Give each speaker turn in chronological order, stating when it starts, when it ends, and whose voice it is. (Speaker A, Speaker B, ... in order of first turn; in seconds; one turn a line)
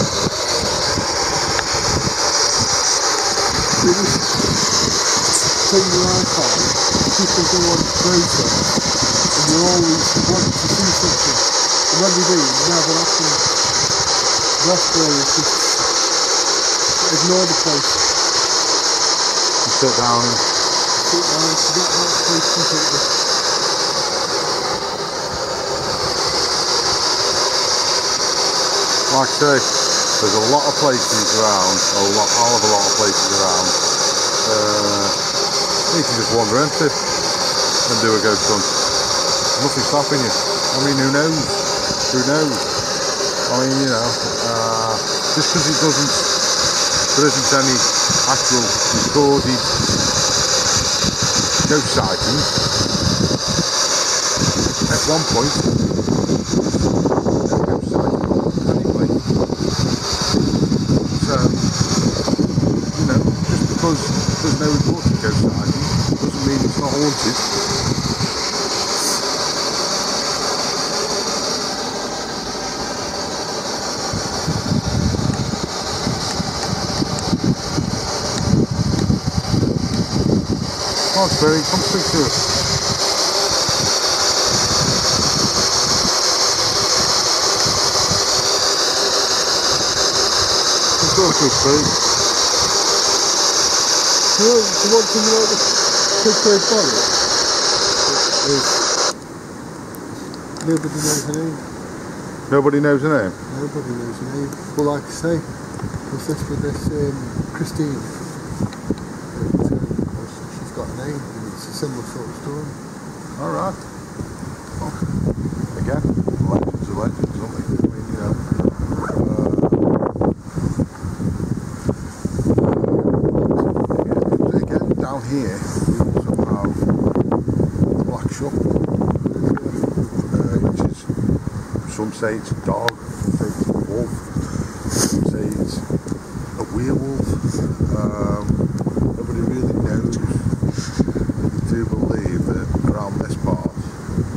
Speaker A: 3.7-4.8
Speaker A: 5.6-14.0
Speaker A: 14.6-15.9
Speaker A: 17.0-18.2
Speaker B: 19.6-20.5
Speaker A: 21.0-23.2
Speaker B: 29.1-35.2
Speaker B: 35.9-37.1
Speaker B: 37.9-38.9
Speaker B: 39.5-42.8
Speaker B: 43.5-49.8
Speaker B: 51.6-52.5
Speaker B: 54.9-55.8
Speaker B: 57.4-59.2
Speaker B: 61.1-61.9
Speaker B: 62.9-67.6
Speaker B: 81.1-82.5
Speaker B: 91.0-92.0
Speaker A: 94.3-97.3
Speaker A: 98.0-98.9
Speaker A: 100.2-101.7
Speaker B: 102.5-103.4
Speaker A: 103.5-108.3
Speaker A: 109.3-112.8
Speaker B: 113.4-113.8
Speaker B: 115.7-119.9
Speaker B: 122.5-126.9
Speaker B: 127.8-128.6
Speaker A: 129.3-130.5
Speaker B: 130.3-131.1
Speaker B: 131.8-135.9
Speaker B: 136.6-144.0